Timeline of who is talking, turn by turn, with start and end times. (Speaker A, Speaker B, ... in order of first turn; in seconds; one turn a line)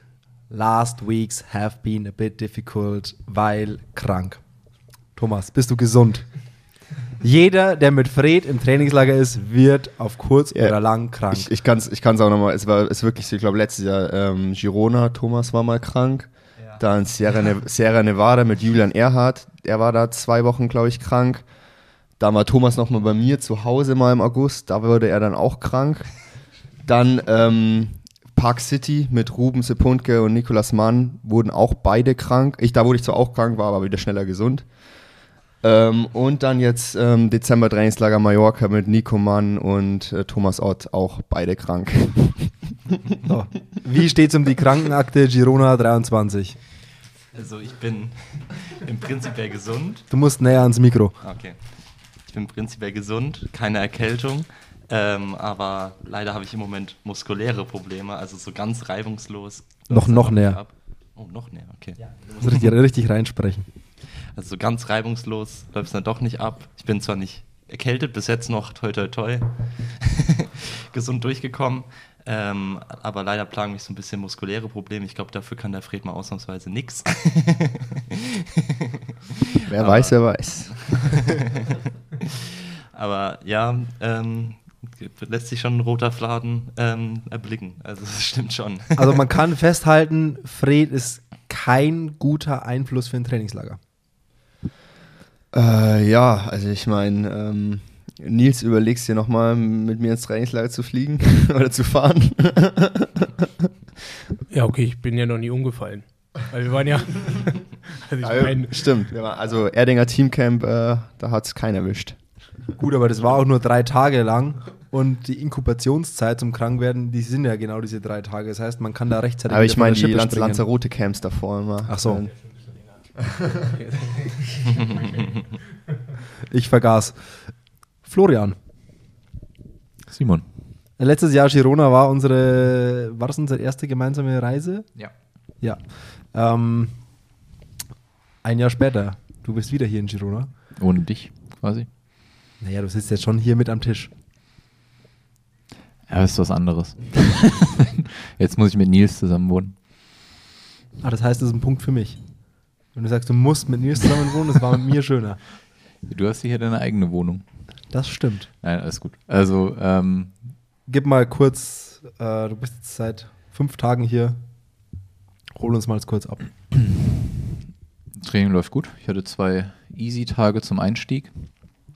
Speaker A: 0.5-4.4
Speaker A: 5.1-6.3
Speaker A: 7.2-11.5
Speaker B: 10.5-21.4
Speaker B: 22.2-26.2
Speaker B: 26.8-34.7
Speaker B: 35.6-42.7
Speaker A: 43.2-46.6
Speaker C: 47.3-50.1
Speaker A: 50.1-51.2
Speaker C: 51.2-62.6
Speaker A: 59.9-60.6
Speaker A: 62.4-63.7
Speaker C: 64.3-89.1
Speaker B: 79.7-80.9
Speaker A: 89.0-93.8
Speaker B: 95.5-103.7
Speaker D: 104.5-108.9
Speaker B: 108.2-112.2
Speaker A: 112.8-120.6
Speaker B: 119.5-122.3
Speaker A: 121.9-122.2
Speaker D: 123.7-125.4
Speaker A: 126.5-127.3
Speaker A: 128.0-128.6
Speaker E: 130.1-130.4
Speaker A: 131.0-134.9
Speaker A: 135.6-137.0
Speaker A: 138.4-140.5
Speaker E: 140.8-141.9
Speaker A: 142.6-144.1
Speaker E: 146.1-149.8
Speaker A: 151.0-152.2
Speaker A: 152.9-155.4
Speaker E: 156.0-157.4
Speaker A: 157.9-158.5
Speaker E: 158.6-160.4
Speaker A: 160.9-164.4
Speaker A: 165.6-166.5
Speaker E: 168.2-171.6